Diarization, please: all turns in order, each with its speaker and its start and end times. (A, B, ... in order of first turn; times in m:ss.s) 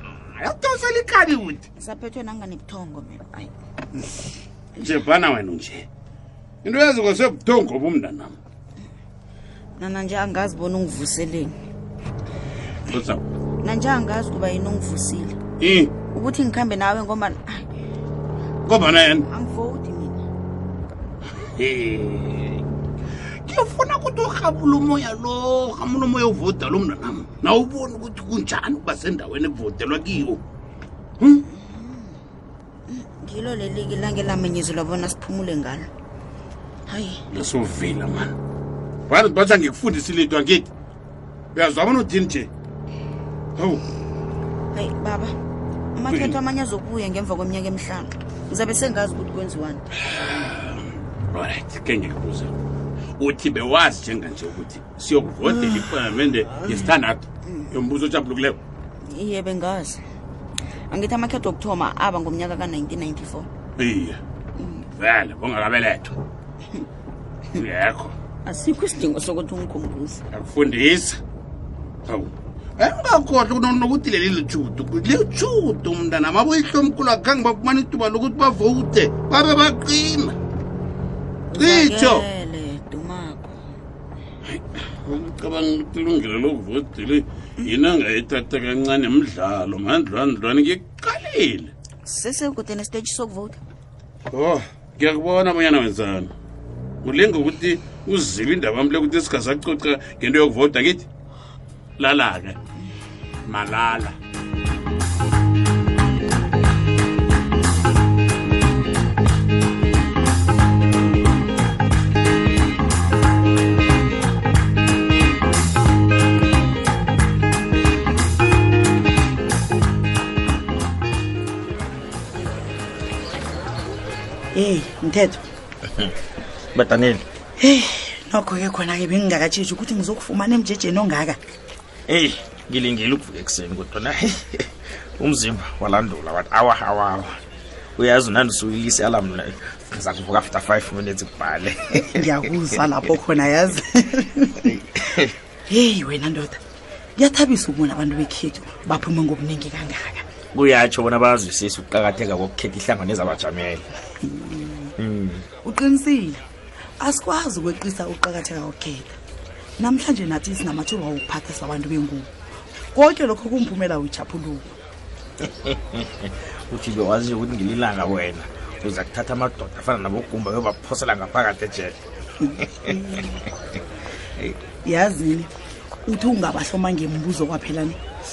0:00.4-0:01.6 A
0:01.8-0:03.5 B
0:04.8-0:05.1 B
0:04.8-0:05.8 A
0:06.6-0:08.4 A
0:09.8-0:11.6 B
0:12.9-0:13.2 A
0:13.6-0:15.4 B
0:15.6-0:15.9 A
0:16.1-0:17.7 B
0:18.7-0:19.2 A
0:19.1-0:20.2 B
0:21.4-0:22.6 A
0:23.5-0:30.4 A
0:31.5-0:32.1 B
0:32.9-0:35.9 B
0:36.9-0:37.2 B
0:37.3-0:38.3 A
0:39.1-0:40.7 A
0:41.6-0:42.5 A
0:43.6-0:43.8 A
0:44.7-0:45.4 B
0:46.0-0:49.8 B
0:46.1-0:46.4 A
0:51.3-0:52.5 A
0:53.2-0:58.6 A
0:59.1-1:00.0 B
1:00.9-1:03.5 B
1:03.8-1:04.2 A
1:04.6-1:04.8 B
1:05.0-1:06.2 A
1:07.6-1:08.1 A
1:08.5-1:10.2 B
1:10.3-1:11.2 A
1:12.1-1:20.4 A
1:21.5-1:23.6 B
1:21.5-1:22.3 A
1:25.0-1:31.7 A
1:32.1-1:33.6 B
1:34.3-1:36.3 A
1:37.0-1:41.1 A
1:42.0-1:42.6 A
1:43.5-1:44.2 A
2:04.6-2:05.4 C
2:06.7-2:07.2 D
2:07.6-2:11.4 C
2:12.1-2:17.4 D
2:18.0-2:22.3 D
2:22.0-2:24.7 C
2:24.7-2:25.4 D
2:25.7-2:26.6 C
2:27.2-2:30.2 C
2:30.5-2:33.8 D
2:34.2-2:34.9 C
2:35.0-2:35.5 D
2:35.6-2:36.4 C
2:37.0-2:39.2 C
2:39.8-2:42.3 C
2:42.9-2:44.8 C
2:45.4-2:52.0 D
2:52.4-2:53.4 C
2:54.8-2:55.5 C
2:56.1-2:58.0 C